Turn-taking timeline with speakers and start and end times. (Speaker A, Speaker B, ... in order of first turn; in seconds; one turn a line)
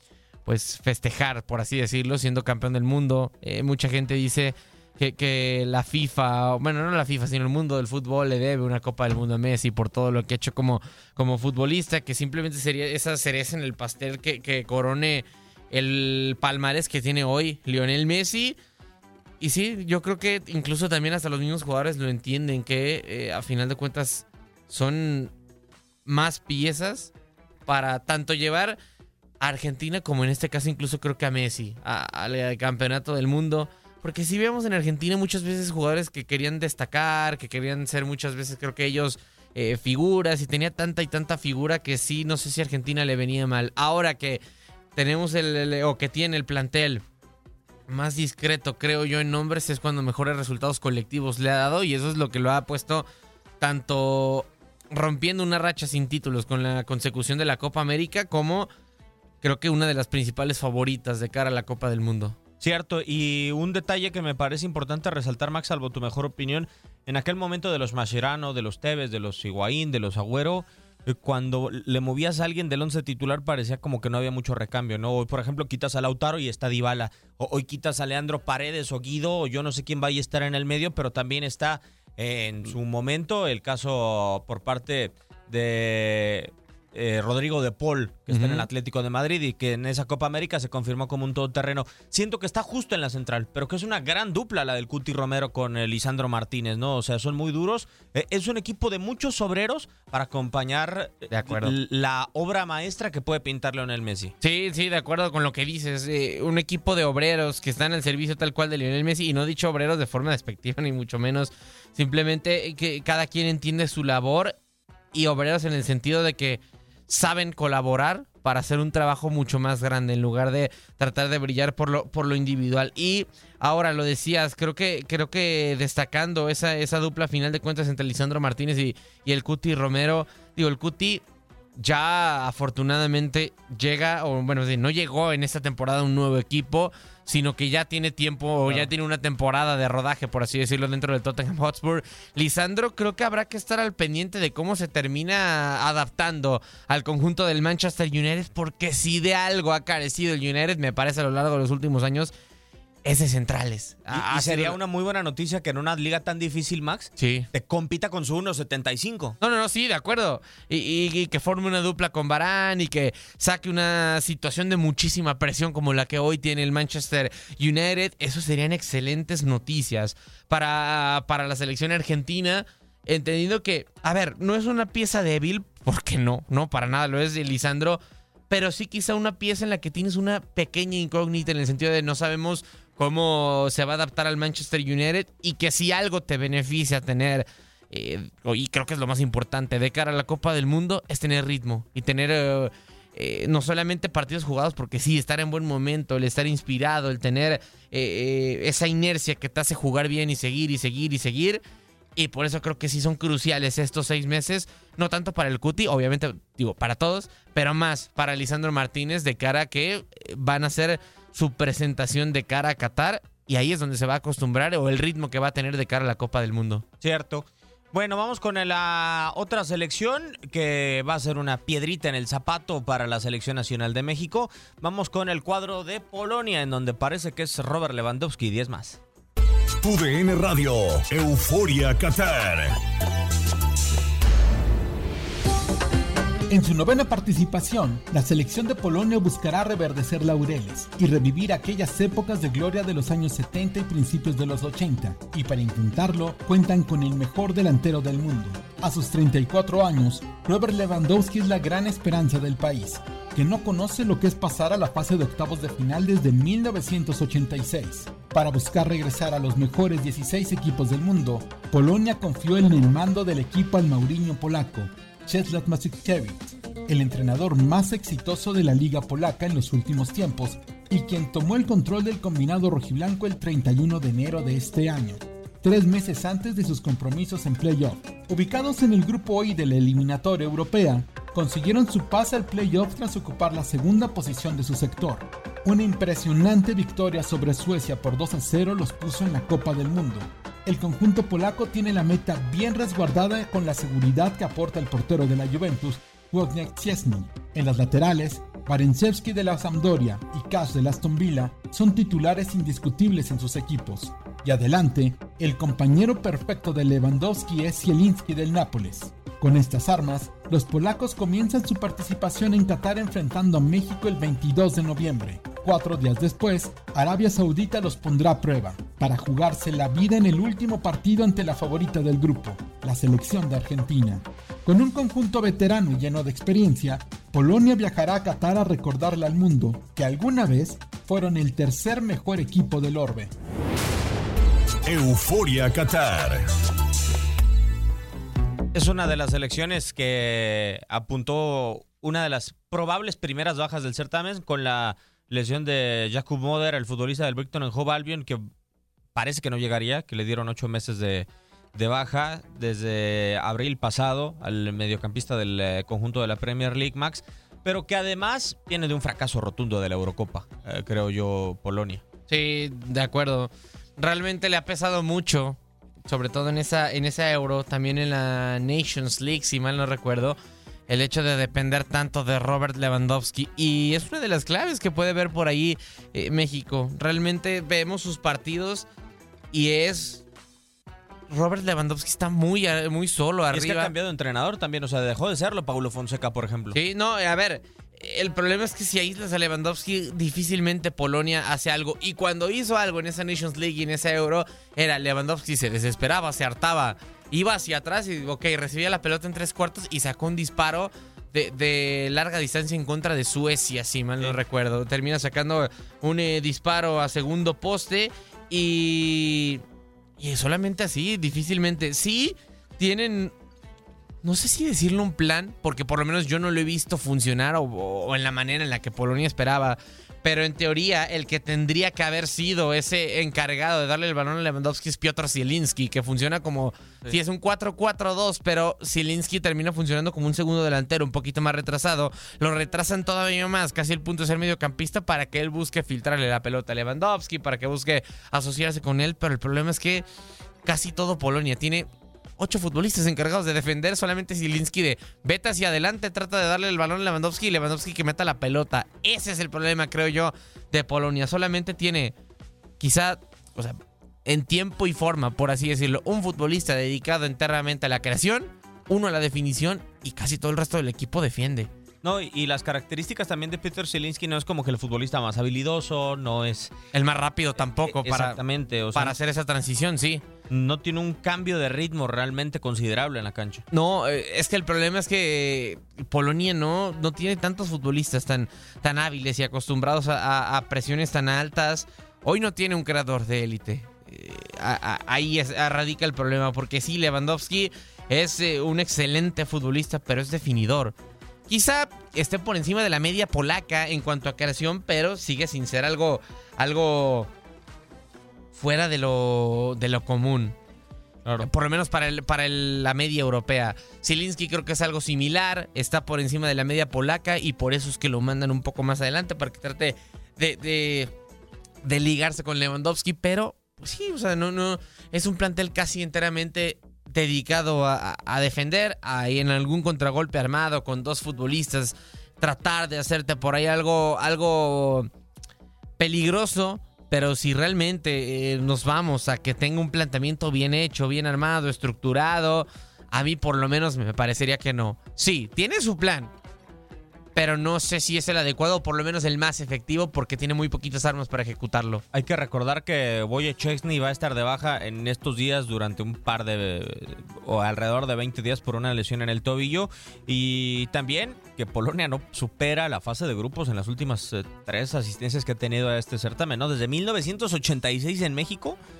Speaker A: 0.5-18.6
Speaker A: 19.4-25.3
Speaker A: 26.1-27.1
Speaker A: 27.7-28.8
Speaker A: 29.4-44.4
Speaker A: 45.0-47.0
Speaker A: 47.9-53.0
Speaker A: 53.6-58.7
Speaker A: 59.4-62.4
Speaker B: 62.6-104.3
Speaker A: 88.3-88.7
Speaker A: 101.3-101.7
Speaker A: 104.4-114.5
Speaker A: 115.1-131.2
Speaker A: 131.8-152.3
Speaker A: 153.0-154.8
Speaker B: 154.1-159.4
Speaker A: 157.2-157.5
Speaker A: 159.4-201.6
Speaker A: 202.2-216.8
Speaker B: 217.0-229.0
Speaker C: 229.8-232.8
Speaker D: 236.5-333.3
Speaker C: 334.8-336.4
Speaker B: 338.7-348.5
Speaker B: 349.1-362.0
Speaker A: 362.3-370.4
Speaker A: 370.9-378.9
Speaker A: 379.5-380.2
Speaker A: 381.3-383.9
Speaker B: 383.5-386.8
Speaker A: 386.7-409.6
Speaker A: 410.2-413.3
Speaker A: 414.2-440.0
Speaker A: 440.6-441.9
Speaker A: 442.4-452.1
Speaker A: 452.8-461.7
Speaker B: 462.0-466.7
Speaker A: 466.9-468.4
Speaker B: 467.6-469.1
Speaker A: 468.9-470.2
Speaker B: 470.5-473.6
Speaker A: 473.7-490.9
Speaker A: 491.5-497.3
Speaker A: 498.5-500.5
Speaker A: 501.4-511.1
Speaker A: 511.8-525.1
Speaker A: 526.0-536.3
Speaker A: 537.3-542.0
Speaker B: 542.1-558.8